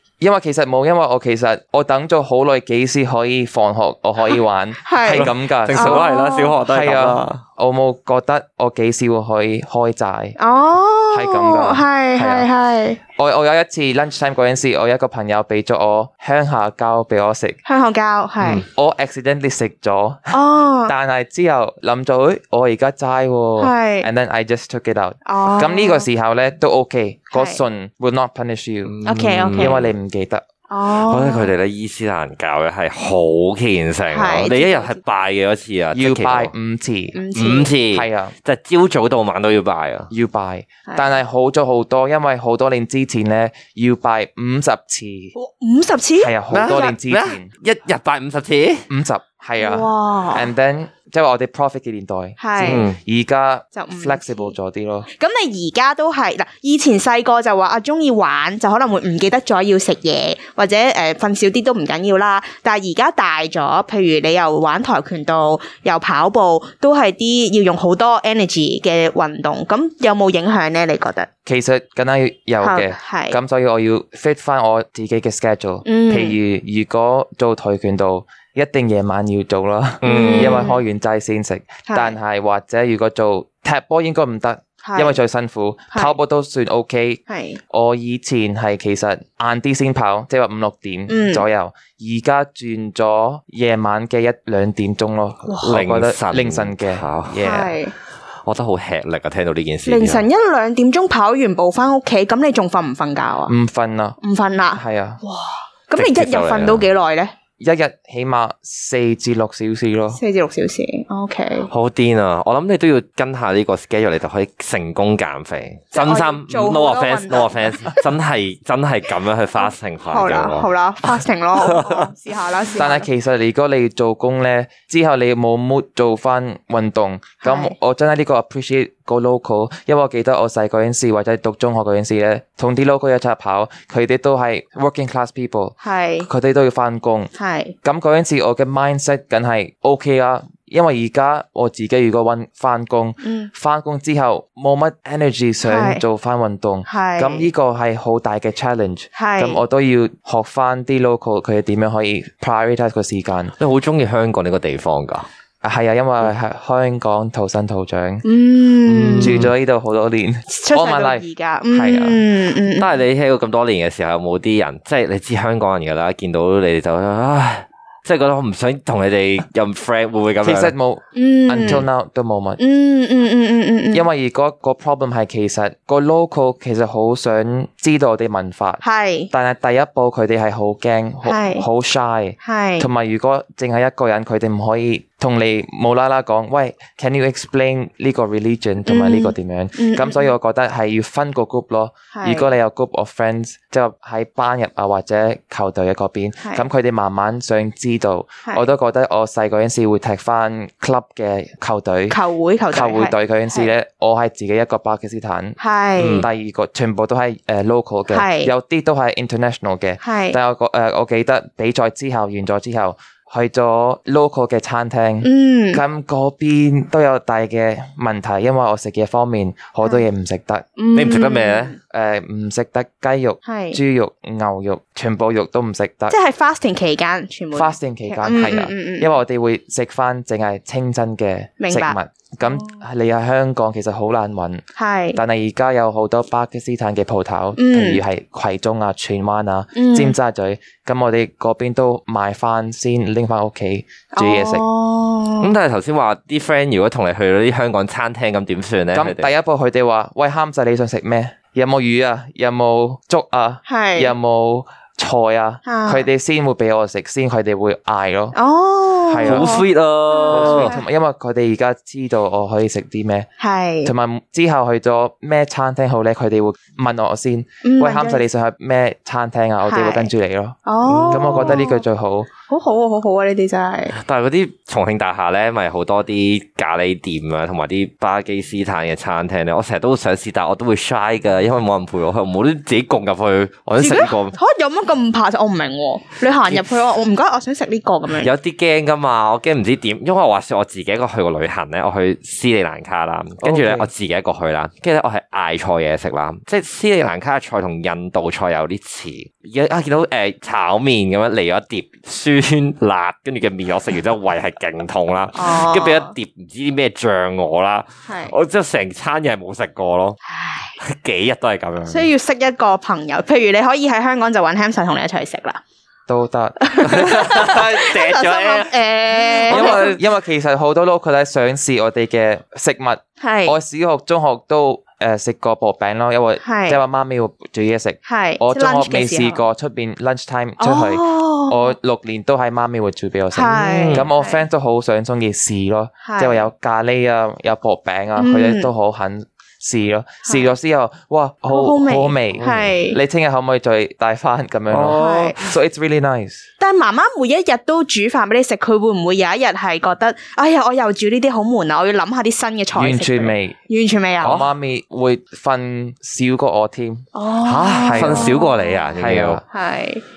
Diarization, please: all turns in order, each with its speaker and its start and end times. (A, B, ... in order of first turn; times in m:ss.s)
0:00.2-0:06.0 A
0:04.8-0:06.6 B
0:05.1-0:07.4 C
0:06.6-0:10.4 A
0:10.4-0:13.0 B
0:11.1-0:12.5 A
0:13.2-0:17.6 A
0:17.6-0:18.6 B
0:18.6-0:29.0 A
0:20.3-0:20.9 B
0:23.6-0:24.1 B
0:25.2-0:26.1 B
0:27.3-0:27.6 B
0:28.8-0:29.9 C
0:29.0-0:29.8 B
0:29.6-0:30.4 A
0:30.7-0:31.5 B
0:30.9-0:36.5 C
0:34.1-0:35.0 B
0:35.9-0:37.2 A
0:37.1-0:37.7 B
0:37.4-0:40.1 C
0:37.9-0:38.3 A
0:40.1-0:45.3 A
0:40.9-0:41.1 B
0:45.3-0:46.7 B
0:46.2-0:47.5 A
0:46.5-0:48.8 C
0:48.9-0:55.1 A
0:49.6-0:50.5 B
0:52.4-0:52.8 B
0:52.6-0:53.0 C
0:53.7-0:54.5 B
0:55.1-1:11.3 B
1:11.4-1:37.8 A
1:12.6-1:13.4 B
1:15.8-1:16.4 B
1:20.0-1:20.6 C
1:20.0-1:20.8 B
1:21.8-1:22.2 B
1:24.8-1:25.2 B
1:25.9-1:26.2 B
1:27.3-1:27.6 B
1:31.1-1:31.4 B
1:35.6-1:37.4 C
1:37.4-1:37.9 B
1:38.4-1:40.2 C
1:39.8-1:43.5 B
1:43.5-1:44.2 A
1:44.2-1:47.3 B
1:44.7-1:45.2 A
1:45.9-1:46.8 C
1:47.6-1:50.2 A
1:50.1-1:51.7 B
1:51.7-2:00.7 C
1:55.9-1:58.0 B
1:59.6-2:03.1 B
2:01.6-2:02.1 C
2:02.8-2:17.3 A
2:07.4-2:07.7 B
2:15.8-2:16.3 B
2:17.4-2:17.7 B
2:17.8-2:33.5 A
2:23.2-2:23.5 B
2:25.6-2:26.0 B
2:26.9-2:27.5 B
2:29.1-2:29.6 B
2:33.6-2:35.3 C
2:35.6-2:38.2 A
2:38.2-2:39.4 B
2:38.9-2:39.5 C
2:39.2-2:42.2 A
2:40.5-2:43.0 B
2:42.6-2:50.7 C
2:50.4-2:52.6 A
2:51.1-2:51.9 B
2:52.6-2:54.0 B
2:53.9-3:22.2 A
2:58.8-2:59.3 B
3:01.2-3:01.6 B
3:02.4-3:02.9 B
3:08.8-3:10.3 B
3:12.1-3:12.5 B
3:22.1-3:23.7 B
3:22.7-3:25.6 A
3:25.6-3:26.2 B
3:26.0-3:26.3 C
3:26.1-3:40.8 A
3:28.1-3:28.5 B
3:30.0-3:30.4 B
3:35.2-3:35.8 B
3:40.8-3:41.8 B
3:40.9-3:41.7 C
3:41.9-3:46.1 A
3:43.4-3:43.8 B
3:46.1-3:49.1 B
3:47.5-3:54.6 A
3:51.6-3:52.8 B
3:54.8-3:55.2 B
3:55.1-4:04.6 A
3:57.6-3:58.0 B
3:59.7-4:00.2 B
4:04.1-4:05.5 B
4:05.4-4:09.3 C
4:08.9-4:18.4 A
4:13.6-4:14.1 B
4:15.6-4:16.1 B
4:18.3-4:20.8 B
4:19.1-4:19.6 A
4:19.2-4:20.7 C
4:20.3-4:23.3 A
4:23.4-4:23.9 B
4:23.8-4:30.6 A
4:27.6-4:28.2 B
4:29.6-4:30.1 B
4:30.6-4:31.8 B
4:30.8-4:31.6 C
4:31.1-4:32.3 A
4:32.5-4:34.0 B
4:33.9-4:44.4 C
4:43.8-4:48.3 B
4:46.5-4:46.8 C
4:48.1-5:10.2 C
4:53.4-4:53.9 A
5:05.3-5:06.1 B
5:08.1-5:08.4 B
5:10.2-5:10.8 B
5:10.8-5:12.1 C
5:11.9-5:15.6 B
5:16.1-5:16.7 A
5:16.6-5:20.0 B
5:16.8-5:20.0 C
5:19.5-5:46.4 A
5:23.2-5:23.6 B
5:26.4-5:26.8 B
5:28.0-5:29.4 B
5:30.6-5:31.7 B
5:33.3-5:34.4 B
5:33.5-5:34.1 C
5:36.0-5:36.5 B
5:38.2-5:38.7 B
5:40.2-5:40.5 B
5:41.5-5:43.0 B
5:42.4-5:42.7 C
5:44.7-5:45.4 C
5:44.9-5:45.4 B
5:46.6-5:54.5 B
5:52.7-5:53.6 A
5:54.2-5:57.1 A
5:57.1-5:58.8 B
5:57.4-5:59.4 C
5:57.8-5:59.4 A
5:59.5-6:00.0 B